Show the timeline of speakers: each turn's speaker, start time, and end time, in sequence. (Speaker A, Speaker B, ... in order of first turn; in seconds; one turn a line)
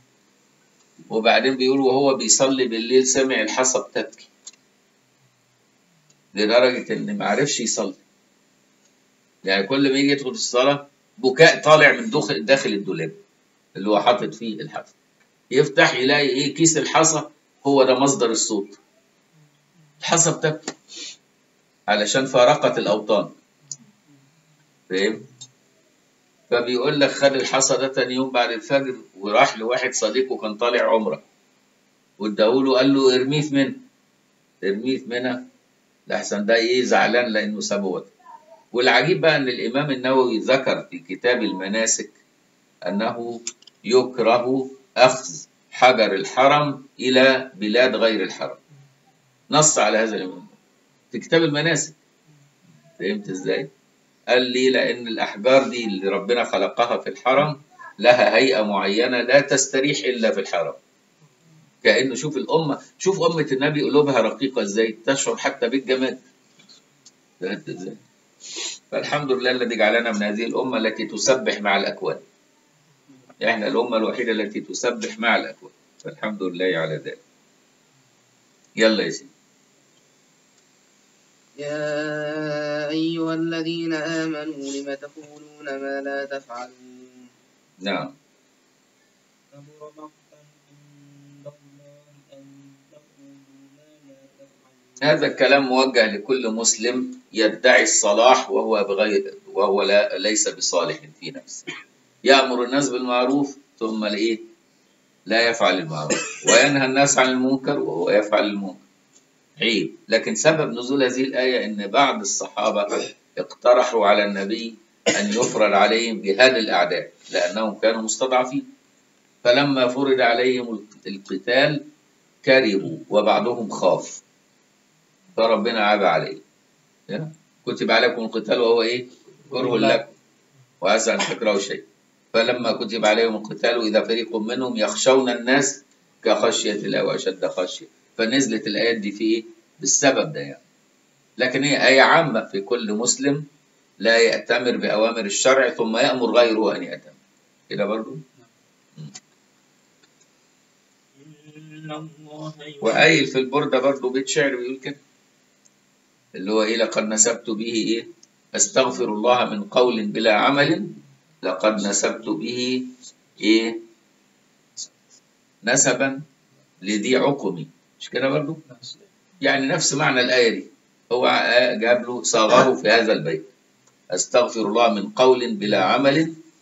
Speaker A: 1.1-4.3
Speaker A: 6.3-8.0
Speaker A: 9.4-13.2
Speaker A: 13.7-14.9
Speaker A: 15.5-18.8
Speaker A: 20.0-20.7
Speaker A: 21.9-23.3
Speaker A: 24.9-25.3
Speaker A: 26.5-31.2
Speaker A: 32.2-33.8
Speaker A: 34.6-35.4
Speaker A: 36.1-38.1
Speaker A: 38.7-42.2
Speaker A: 42.9-48.6
Speaker A: 49.5-50.5
Speaker A: 51.1-52.0
Speaker A: 53.0-53.7
Speaker A: 54.3-60.8
Speaker A: 61.8-66.2
Speaker A: 67.4-68.0
Speaker A: 68.9-72.2
Speaker A: 73.4-77.2
Speaker A: 78.8-79.3
Speaker B: 81.6-87.3
Speaker A: 87.8-88.1
Speaker C: 89.5-95.2
Speaker A: 95.0-101.7
Speaker A: 102.2-104.4
Speaker A: 105.3-108.8
Speaker A: 109.6-118.6
Speaker A: 119.4-121.8
Speaker A: 122.4-124.2
Speaker A: 125.4-126.4
Speaker A: 127.1-130.1
Speaker A: 130.8-140.6
Speaker A: 141.4-143.4
Speaker A: 144.0-147.2
Speaker A: 147.7-148.2
Speaker C: 151.2-152.8
Speaker A: 152.8-155.0
Speaker A: 156.3-163.8
Speaker A: 165.6-166.2
Speaker A: 166.8-168.6
Speaker A: 169.4-173.5
Speaker A: 174.1-176.4